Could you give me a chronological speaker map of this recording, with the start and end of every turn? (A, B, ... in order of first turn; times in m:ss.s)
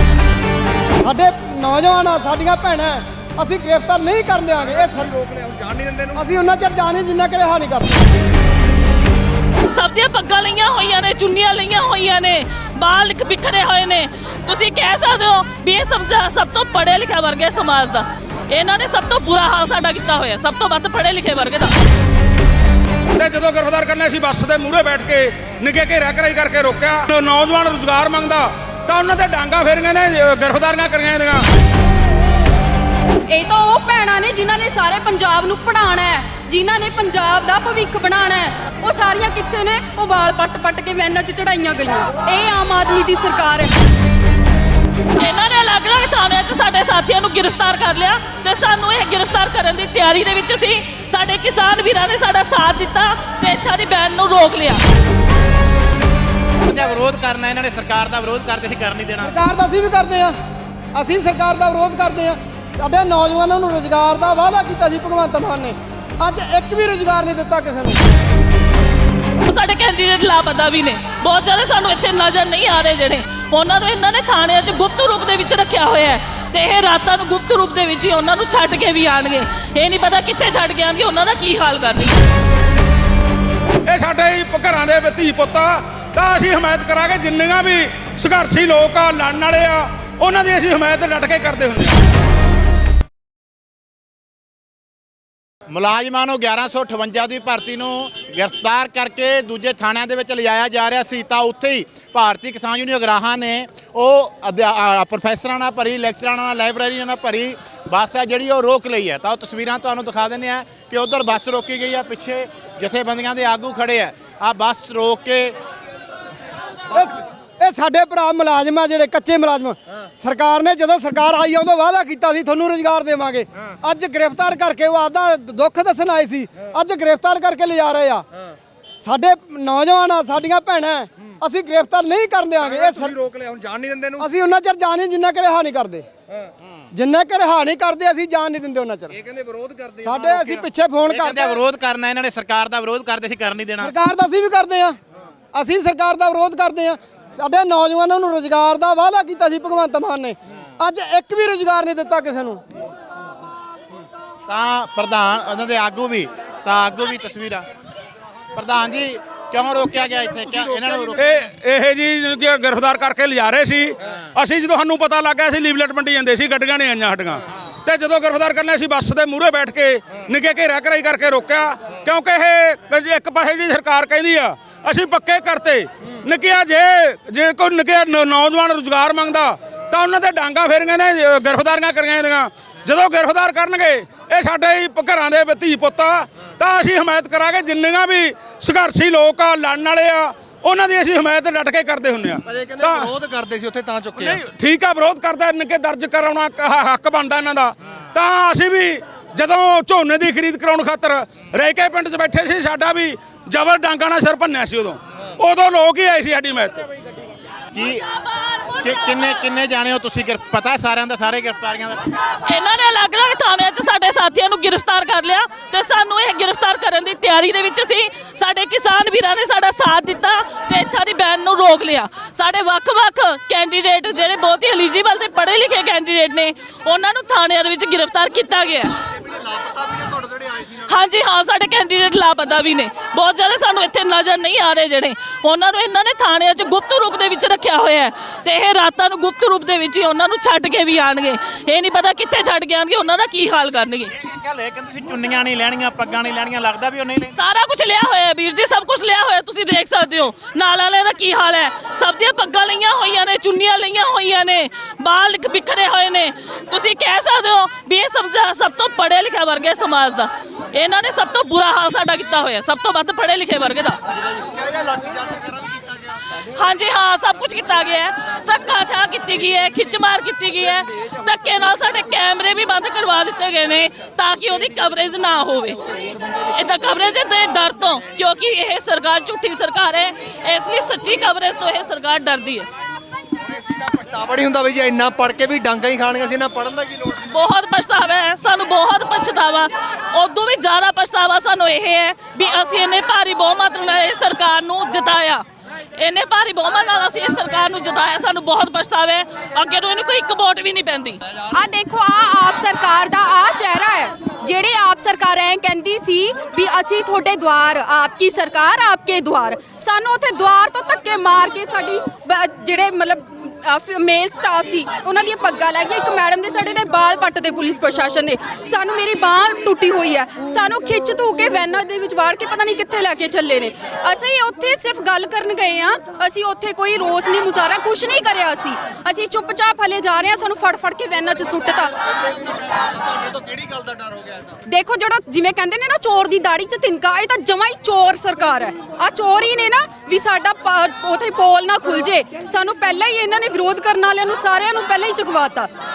0:01.0-0:05.1 A
0:04.7-0:06.2 B
0:06.2-0:08.0 A
0:09.7-0:21.7 C
0:23.2-0:31.4 D
0:33.3-0:43.7 E
0:45.2-0:54.8 C
0:56.6-0:59.4 F
0:59.2-1:00.4 A
1:00.9-1:08.0 A
1:09.4-1:22.2 C
1:23.9-1:32.0 D
1:35.7-1:55.6 F
1:56.9-2:08.3 A
2:09.0-2:13.2 A
2:12.6-2:14.3 B
2:14.2-2:16.0 A
2:16.9-2:19.2 A
2:19.1-2:20.6 B
2:20.0-2:21.6 A
2:21.1-2:23.9 F
2:23.8-2:25.0 A
2:25.5-2:32.6 A
2:34.5-2:37.7 F
2:38.6-2:41.3 F
2:40.0-2:41.2 B
2:41.2-3:13.1 D
3:12.5-3:14.4 B
3:14.2-3:26.8 D
3:27.7-3:28.0 F
3:27.8-3:29.5 C
3:28.8-3:32.1 F
3:32.5-3:49.0 C
3:49.0-3:50.8 B
3:50.8-4:04.1 C
4:04.1-4:07.3 F
4:07.4-4:24.0 C
4:24.1-4:26.2 B
4:26.4-4:35.9 C
4:36.4-4:42.7 C
4:43.4-4:47.4 B
4:47.3-4:55.4 C
4:56.0-5:01.2 C
5:01.5-5:31.9 E
5:32.1-5:34.6 B
5:34.7-5:45.7 E